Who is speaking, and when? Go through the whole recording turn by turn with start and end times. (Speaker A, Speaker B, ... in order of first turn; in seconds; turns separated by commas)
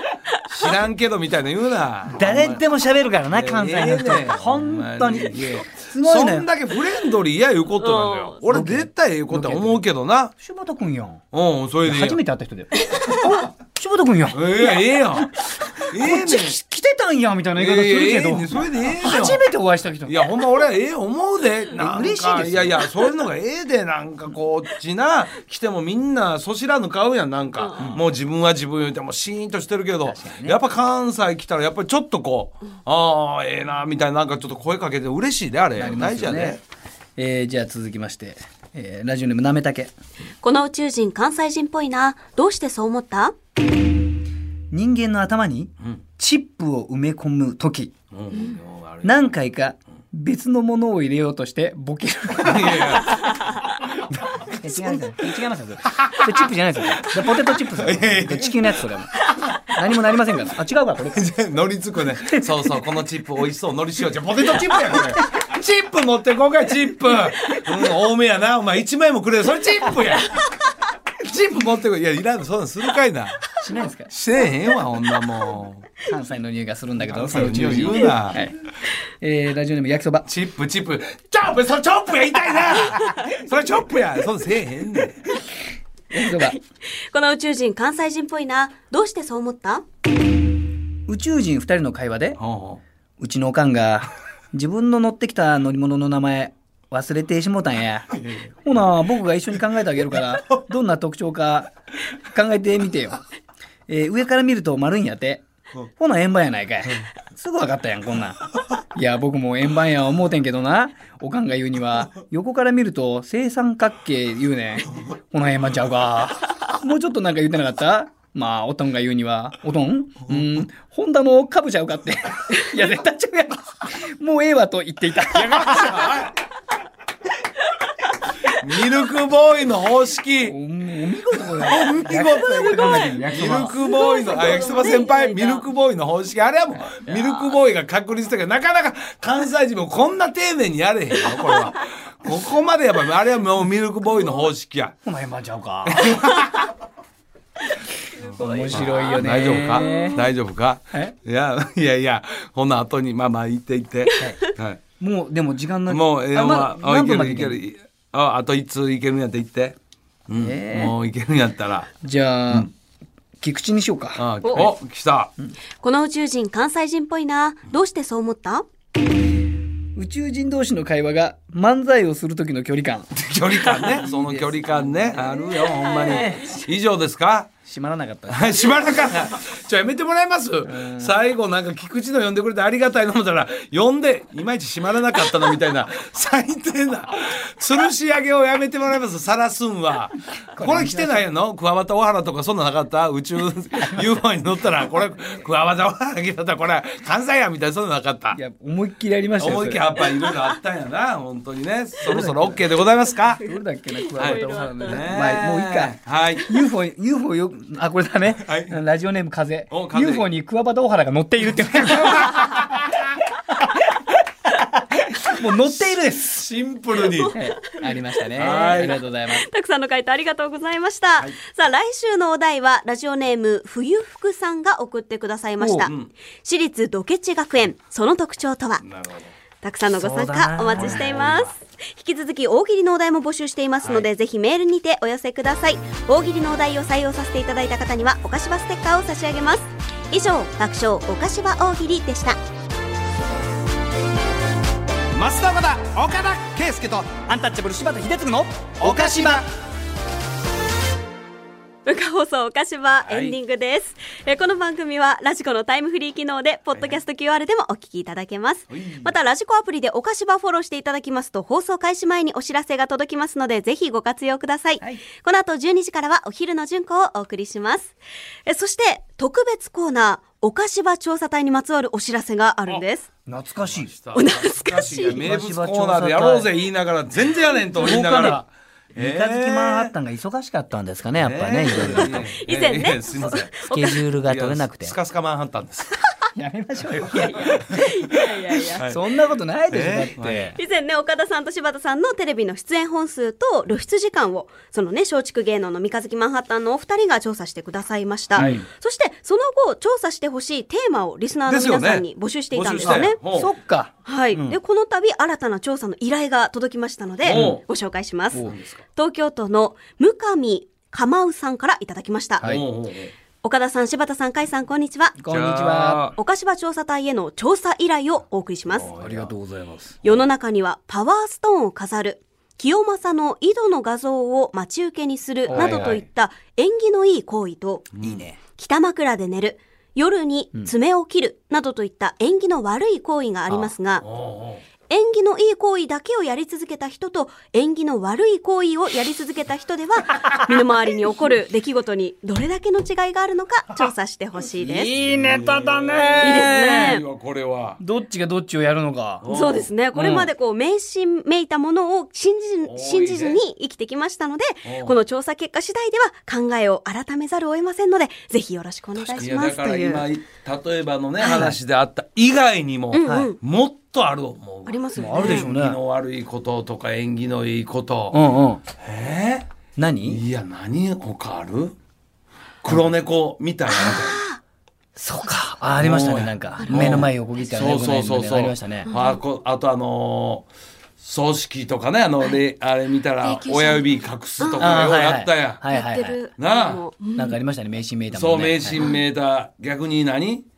Speaker A: 0.4-2.6, Speaker B: 2.1-6.5, Speaker A: 3.3-10.3, Speaker C: 7.8-8.4, Speaker B: 8.5-9.8, Speaker B: 10.4-11.2, Speaker A: 11.3-12.2, Speaker B: 11.9-14.4, Speaker A: 14.3-15.4, Speaker B: 15.5-20.1, Speaker A: 15.9-16.6, Speaker A: 17.6-19.4, Speaker A: 20.1-36.6, Speaker B: 21.8-22.8, Speaker B: 27.8-28.0, Speaker B: 30.0-30.6, Speaker B: 35.8-36.6, Speaker B: 37.2-39.9, Speaker C: 40.4-43.4, Speaker B: 44.7-47.9, Speaker A: 48.1-49.4, Speaker B: 49.0-53.2, Speaker A: 52.4-53.6, Speaker B: 54.2-61.2, Speaker A: 54.7-55.0, Speaker A: 56.0-56.3, Speaker A: 57.1-58.8, Speaker A: 61.1-70.5, Speaker A: 71.2-73.5, Speaker B: 73.6-74.1, Speaker A: 74.1-75.9, Speaker B: 76.0-78.5, Speaker A: 77.0-78.4, Speaker B: 79.2-80.3, Speaker A: 80.2-85.3, Speaker B: 86.1-86.6, Speaker C: 87.1-89.8, Speaker B: 91.1-92.4, Speaker A: 92.4-92.8, Speaker B: 93.2-98.1, Speaker A: 98.2-98.5, Speaker B: 98.6-101.7, Speaker B: 102.3-103.2, Speaker B: 103.9-105.4, Speaker B: 106.0-108.4, Speaker B: 109.0-126.2, Speaker A: 125.8-126.3, Speaker A: 128.5-130.6, Speaker B: 130.4-133.8, Speaker A: 131.5-145.0, Speaker C: 133.8-135.7, Speaker C: 137.1-137.5, Speaker B: 145.1-146.4, Speaker A: 145.9-146.5, Speaker A: 148.3-154.8, Speaker C: 148.3-150.2, Speaker B: 148.4-150.2, Speaker B: 155.0-157.6, Speaker A: 155.9-159.8, Speaker A: 160.3-161.9, Speaker B: 160.4-160.9, Speaker B: 162.0-162.7, Speaker B: 163.4-164.7, Speaker A: 164.2-165.3, Speaker C: 165.8-168.7, Speaker B: 170.0-176.5, Speaker A: 173.3-177.5, Speaker C: 175.7-176.5, Speaker B: 177.7-178.7, Speaker A: 178.3-198.4, Speaker B: 180.6-181.2, Speaker B: 190.6-191.3, Speaker B: 198.3-199.8, Speaker A: 199.4-203.4, Speaker B: 202.1-202.6, Speaker B: 203.4-212.7, Speaker A: 204.1-206.5, Speaker C: 204.2-205.0, Speaker A: 208.3-208.8, Speaker A: 209.7-210.3, Speaker B: 213.6-216.5, Speaker A: 215.8-217.4, Speaker C: 217.2-217.5, Speaker B: 217.3-219.4, Speaker C: 218.2-225.9, Speaker A: 218.3-219.0, Speaker A: 225.6-226.1, Speaker C: 226.4-228.8, Speaker A: 228.8-229.3, Speaker C: 229.6-242.4, Speaker B: 229.9-231.1, Speaker A: 230.7-231.5, Speaker A: 233.8-234.1, Speaker A: 245.1-247.1, Speaker B: 247.1-249.4, Speaker A: 248.8-249.4, Speaker C: 251.8-267.9, Speaker A: 253.0-253.4, Speaker A: 256.7-257.0, Speaker A: 258.7-259.1, Speaker C: 268.5-273.1, Speaker B: 273.3-273.9, Speaker A: 273.6-279.9, Speaker C: 274.1-275.3, Speaker B: 274.9-276.5, Speaker B: 277.8-282.3, Speaker A: 281.1-283.7, Speaker C: 282.0-283.9, Speaker B: 283.7-285.0, Speaker A: 284.2-286.1, Speaker B: 286.4-287.6, Speaker A: 287.0-287.6, Speaker C: 287.4-288.9, Speaker A: 288.7-289.0, Speaker B: 288.8-290.6, Speaker A: 289.7-290.5, Speaker C: 290.6-303.2, Speaker A: 298.4-298.6, Speaker B: 298.4-298.6, Speaker A: 301.5-303.5, Speaker B: 302.8-304.5, Speaker C: 304.1-312.5, Speaker A: 307.2-307.6, Speaker B: 307.3-307.6, Speaker A: 308.4-308.8, Speaker A: 312.4-313.1, Speaker C: 313.4-315.2, Speaker B: 315.2-316.1, Speaker A: 315.3-316.2, Speaker C: 316.2-318.9, Speaker A: 318.7-319.3, Speaker B: 318.9-319.9, Speaker C: 320.0-327.9, Speaker B: 325.5-326.0, Speaker A: 325.5-326.0, Speaker A: 328.0-328.3, Speaker B: 328.0-328.4, Speaker C: 328.6-334.0, Speaker A: 333.5-334.6, Speaker C: 334.9-344.9, Speaker B: 344.6-347.0, Speaker A: 344.9-347.8, Speaker C: 346.2-347.0, Speaker B: 347.8-349.3, Speaker A: 349.2-349.7, Speaker C: 349.3-360.1, Speaker B: 349.9-350.3, Speaker A: 352.6-353.4, Speaker A: 354.6-354.9, Speaker A: 359.0-368.2, Speaker C: 361.2-361.5, Speaker B: 361.3-361.5, Speaker C: 362.9-363.4, Speaker B: 363.0-363.4, Speaker C: 364.7-365.5, Speaker B: 365.0-365.8, Speaker B: 368.1-368.6, Speaker A: 368.8-369.5, Speaker B: 369.8-370.2, Speaker A: 370.1-371.8, Speaker A: 372.6-374.2, Speaker C: 373.7-374.4, Speaker B: 375.0-378.9, Speaker A: 375.8-380.5, Speaker C: 376.6-377.0, Speaker C: 378.9-379.2, Speaker A: 381.0-385.7, Speaker C: 383.2-384.7, Speaker B: 384.6-386.2, Speaker C: 385.7-387.4, Speaker A: 386.4-386.8, Speaker B: 387.2-388.9, Speaker A: 388.1-390.4